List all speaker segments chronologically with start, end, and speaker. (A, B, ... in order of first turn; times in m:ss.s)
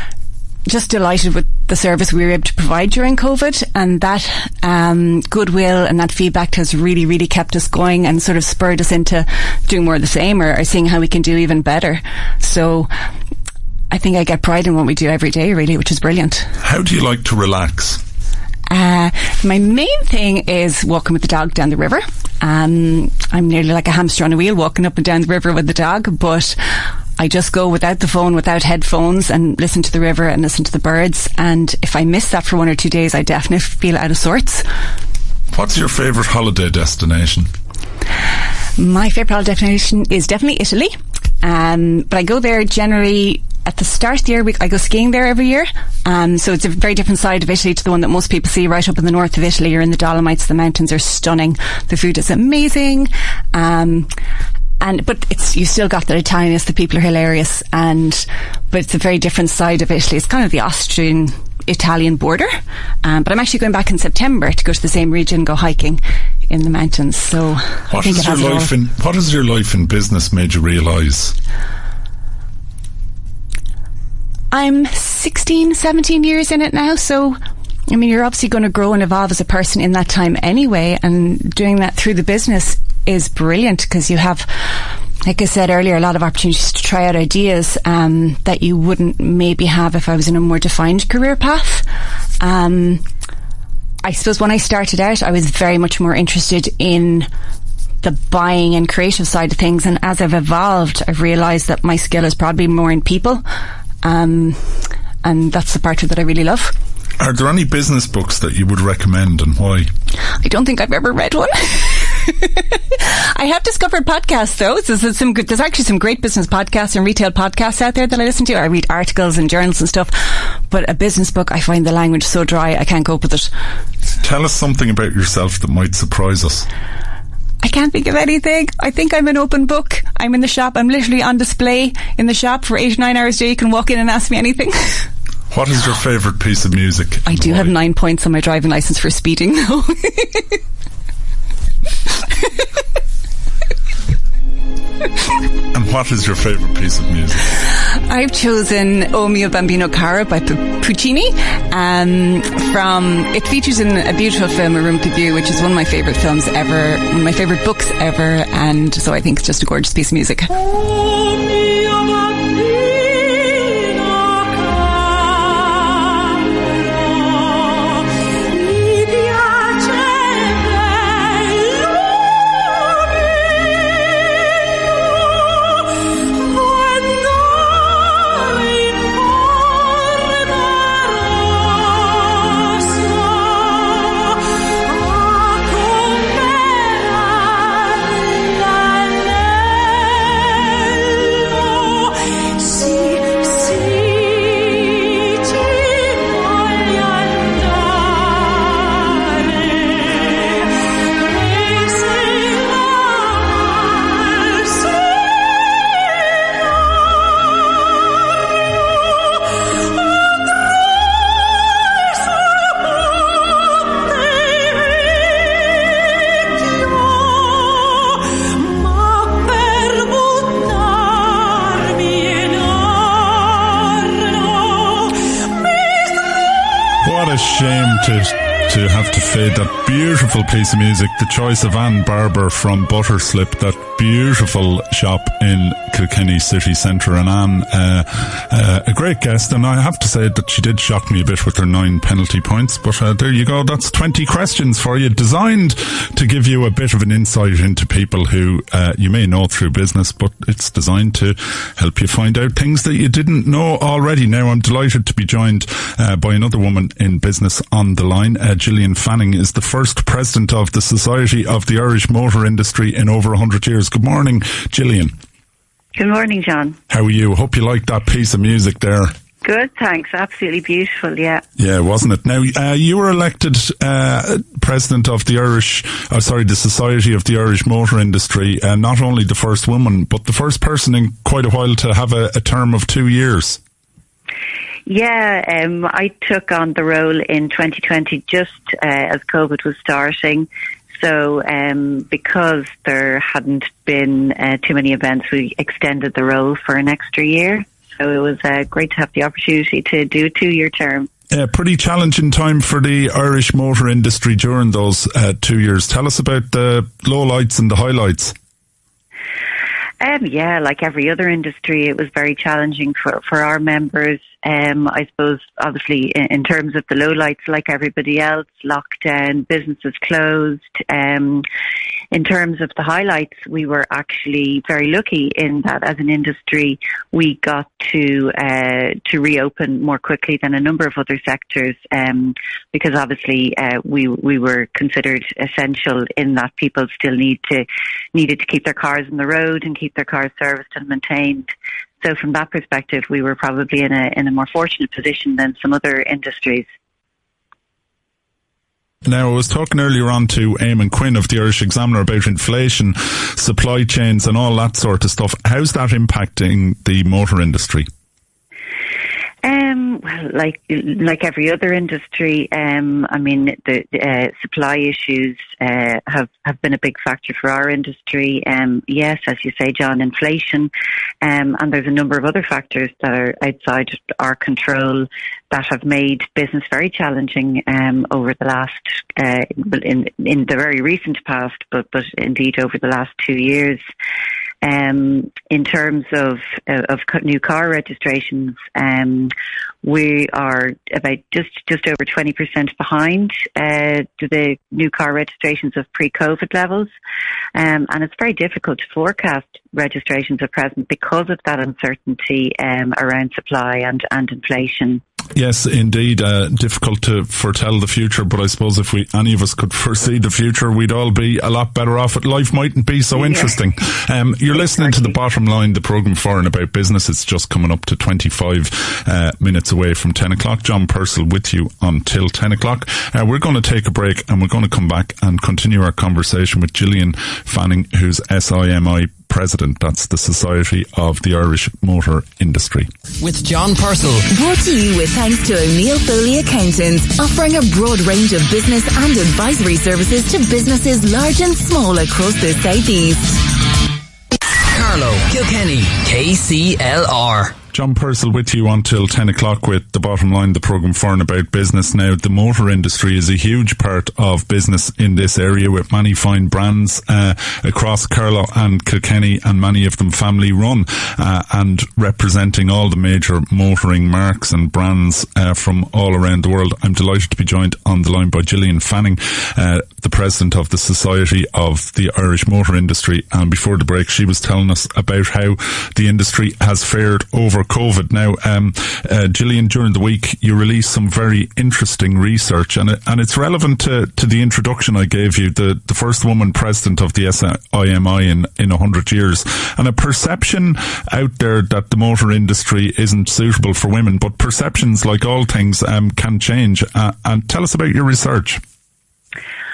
0:00.6-0:12.9 A
0:13.9-0:16.5 A
0:16.6-0:18.0 B
0:18.7-0:26.6 A
0:27.2-0:34.6 A
0:35.5-0:37.5 B
0:38.8-0:54.1 A
0:54.8-1:08.7 A
1:07.9-1:11.3 B
1:14.5-1:31.8 A
1:32.4-1:33.0 A
1:34.0-1:37.3 A
1:38.0-1:43.4 A
1:44.0-1:46.7 A
1:47.2-1:49.9 B
1:50.4-2:03.5 A
2:04.2-2:06.7 B
2:07.6-2:15.1 A
2:15.5-2:17.7 B
2:17.2-2:20.6 A
2:25.7-2:27.5 B
2:27.8-2:40.7 A
3:47.0-4:25.1 B
4:25.9-4:26.8 C
4:26.9-4:29.1 B
4:29.4-4:31.4 C
4:31.6-4:43.6 B
4:44.9-5:01.1 C
5:01.3-5:08.3 B
5:10.0-5:21.4 C
5:22.1-5:41.5 C
5:42.0-5:46.7 C
5:49.0-5:57.9 B
5:59.4-6:10.7 C
6:11.2-6:23.8 C
6:24.6-6:36.9 C
6:37.5-6:45.0 C
6:45.3-7:12.9 B
7:13.2-7:14.3 D
7:14.3-7:23.4 E
7:24.6-7:27.6 D
7:27.7-8:18.6 B